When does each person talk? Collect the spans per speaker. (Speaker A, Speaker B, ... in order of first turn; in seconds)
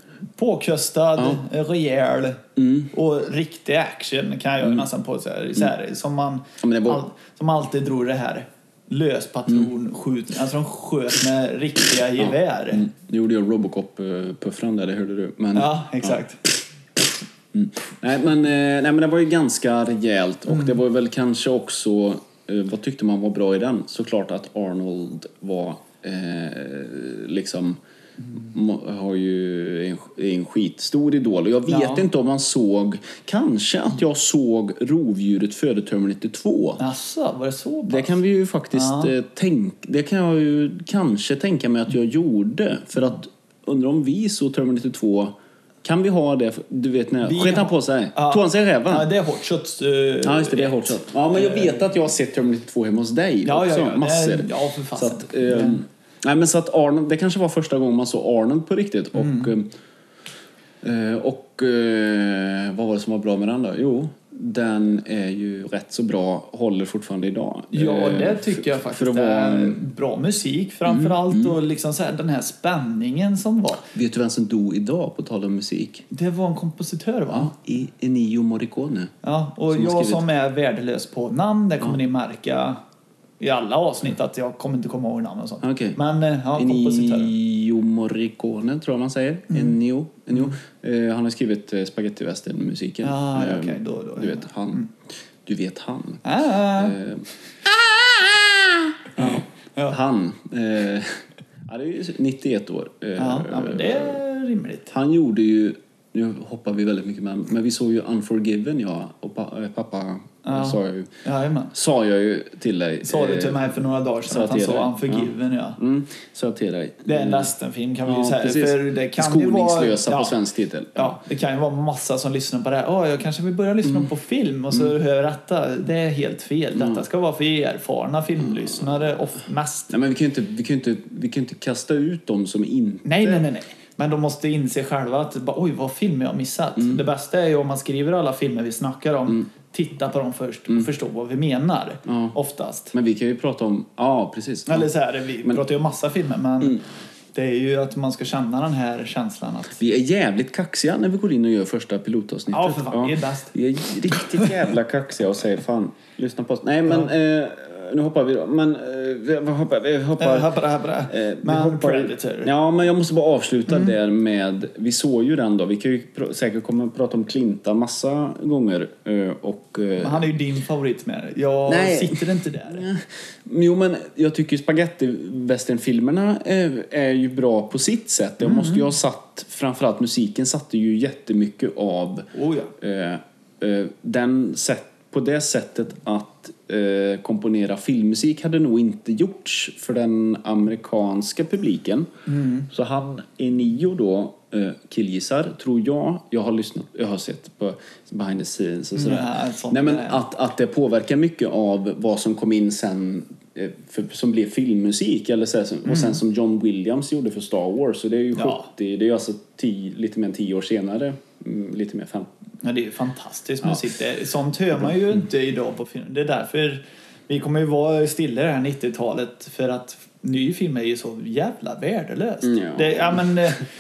Speaker A: 0.4-12.9, 15.5-16.4, 20.5-20.8, 31.7-32.1, 36.8-38.2, 38.7-39.1, 47.2-51.8, 53.5-55.8, 59.2-59.5, 67.7-73.9, 76.1-77.5, 79.2-82.8, 83.4-87.3, 89.5-89.8, 93.0-94.9, 96.2-97.0, 99.2-100.0, 103.2-104.9, 110.5-111.7, 113.0-115.8, 117.1-120.3, 121.0-129.9, 133.1-142.9, 144.7-146.8, 147.3-149.8, 152.5-153.5, 154.1-154.5, 160.2-162.5, 170.0-172.9, 178.4-178.9, 182.3-182.7, 192.3-192.7, 198.9-200.2, 205.9-206.2, 208.3-208.7, 212.6-223.7
Speaker B: 2.6-2.9, 6.6-7.0, 12.2-16.1, 17.5-27.8, 28.3-36.8, 37.9-49.1, 50.2-59.7, 60.8-69.8, 70.9-71.5, 73.9-76.0, 77.3-79.1, 79.7-80.2, 85.6-86.0, 86.5-94.8, 95.4-97.3, 99.2-104.2, 104.9-111.1, 111.7-113.6, 114.3-117.5, 118.1-121.2, 126.8-127.0, 129.9-133.4, 142.1-142.3, 142.9-144.9, 149.8-170.3, 171.7-192.1, 192.7-212.3, 222.4-223.5